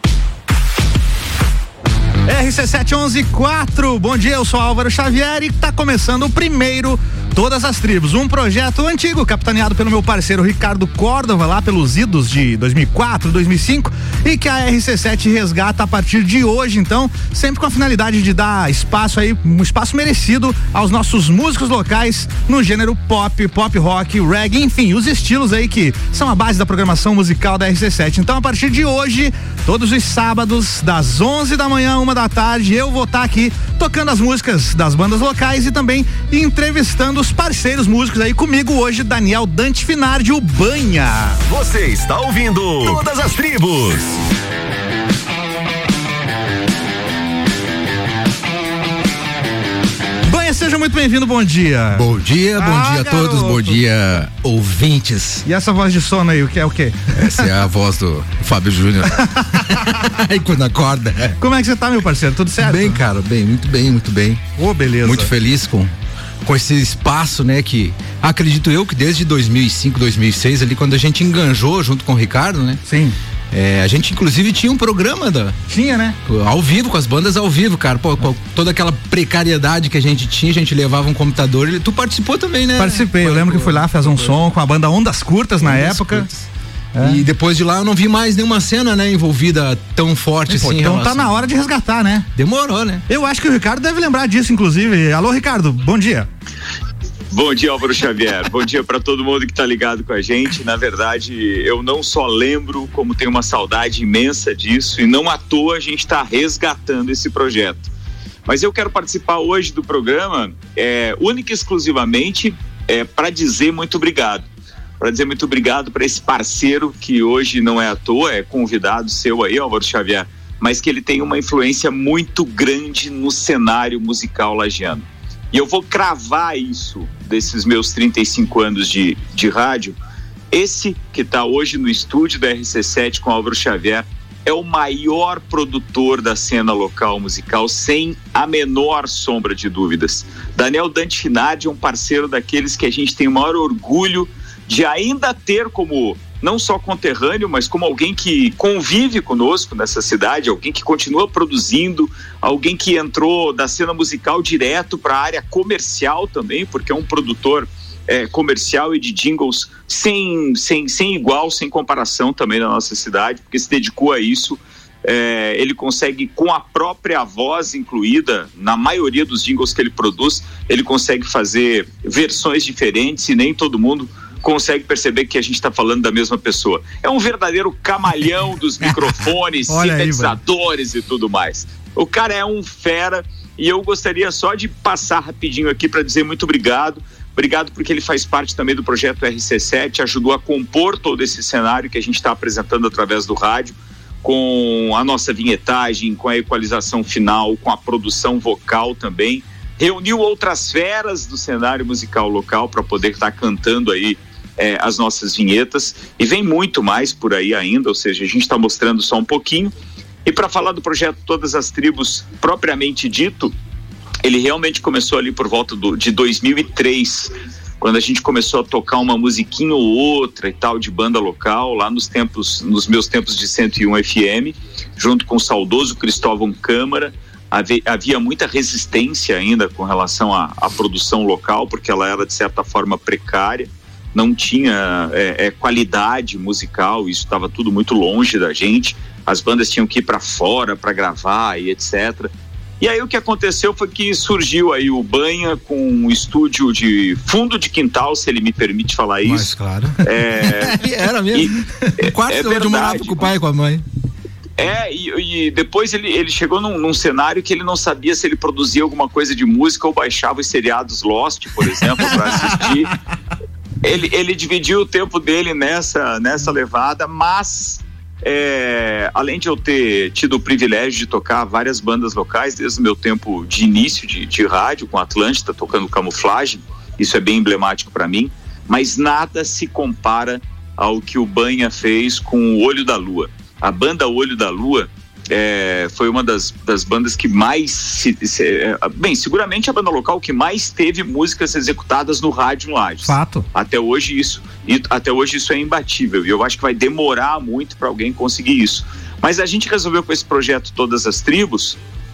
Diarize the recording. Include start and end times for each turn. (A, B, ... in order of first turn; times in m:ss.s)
0:02.3-0:41.4 A
0:41.5-0:44.2 B
0:50.2-0:52.0 A
0:51.9-0:55.4 C
0:52.6-0:53.8 A
0:55.4-0:57.2 A
0:57.2-1:01.4 C
1:01.4-1:03.0 A
1:02.6-1:04.4 C
1:04.6-1:05.3 A
1:05.0-1:05.9 C
1:06.4-1:12.8 C
1:12.9-1:13.2 A
1:13.5-1:15.6 C
1:15.7-1:16.2 A
1:16.3-1:24.3 C
1:22.8-1:26.3 A
1:25.6-1:26.5 C
1:27.0-1:27.2 A
1:27.0-1:31.4 C
1:30.5-1:32.3 A
1:32.4-1:33.0 C
1:33.1-1:36.3 A
1:37.3-1:47.9 D
1:48.5-1:54.4 D
1:55.0-2:10.0 D
2:10.5-3:29.7 D
2:59.7-3:00.4 A
3:30.2-3:33.5 D
3:34.2-4:09.5 D
4:09.2-4:13.8 C
4:10.0-4:10.8 D
4:11.3-4:13.3 D
4:14.6-4:22.9 D
4:23.8-5:01.8 D
4:53.1-4:53.4 A